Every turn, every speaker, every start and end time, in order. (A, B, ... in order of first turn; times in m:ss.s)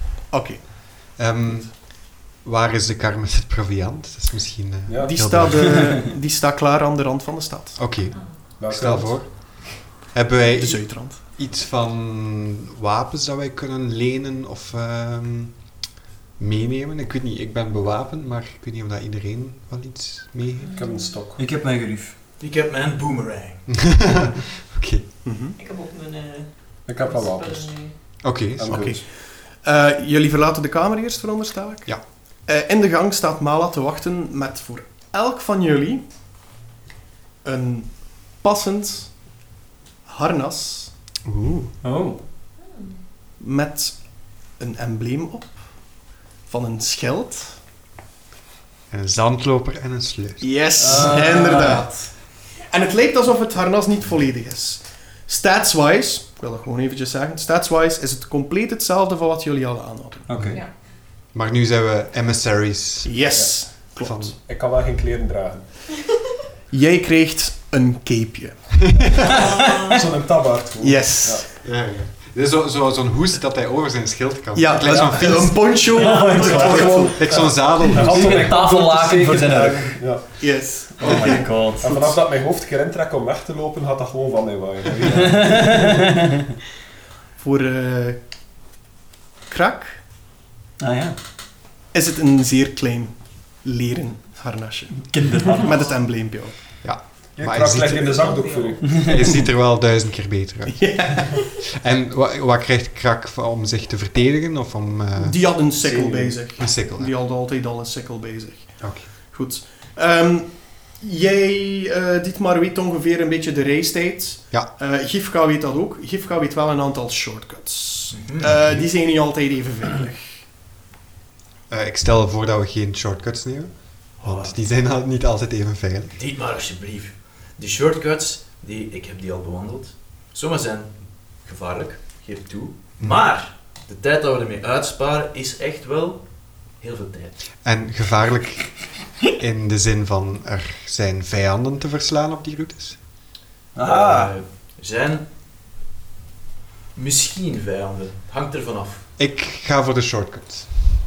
0:00.3-0:01.2 A
0:01.2-0:06.0 B
0:04.9-0:05.3 C
0:05.0-0:07.8 A
0:07.8-0:15.8 B
0:08.6-0:09.2 C
0:10.5-0:11.2 A
0:16.4-0:20.8 B
0:20.6-0:21.2 D
0:20.7-0:21.4 C
0:21.4-0:22.1 E
0:22.4-0:23.7 F
0:23.7-0:25.1 B
0:25.2-0:25.6 A
0:25.6-0:28.1 D
0:26.9-0:29.0 C
0:28.2-0:29.0 B
0:28.7-0:36.0 A
0:37.4-0:39.1 A
0:40.0-0:41.7 A
0:41.8-0:42.2 E
0:43.4-0:45.7 A
0:46.4-0:47.6 A
0:48.9-0:50.5 B
0:50.4-1:00.3 A
0:50.8-0:51.9 E
1:00.3-1:00.6 E
1:01.1-1:03.3 B
1:03.0-1:04.3 A
1:04.0-1:04.3 B
1:04.4-1:05.8 C
1:06.7-1:08.8 A
1:09.2-1:11.4 C
1:09.3-1:10.0 D
1:10.8-1:11.5 A
1:11.6-1:15.8 B
1:14.6-1:17.3 A
1:15.9-1:17.2 E
1:16.3-1:20.2 C
1:17.1-1:18.5 B
1:17.9-1:20.0 E
1:20.4-1:22.1 A
1:21.0-1:21.9 E
1:21.8-1:26.0 C
1:25.1-1:26.3 E
1:27.4-1:28.2 A
1:29.5-1:30.0 A
1:30.8-1:31.2 E
1:31.9-1:36.5 A
1:35.1-1:35.8 E
1:36.8-1:38.4 B
1:37.4-1:39.3 C
1:38.2-1:39.0 D
1:38.9-1:45.6 B
1:40.7-1:41.4 A
1:45.2-2:00.4 A
1:46.6-1:47.1 B
1:48.8-1:49.1 B
1:58.1-1:58.5 F
1:58.6-1:58.8 B
2:01.7-2:06.2 B
2:04.2-2:04.6 F
2:06.2-2:17.4 F
2:17.6-2:23.0 B
2:23.7-2:24.3 E
2:23.8-2:25.3 F
2:26.9-2:29.0 F
2:29.2-2:30.7 B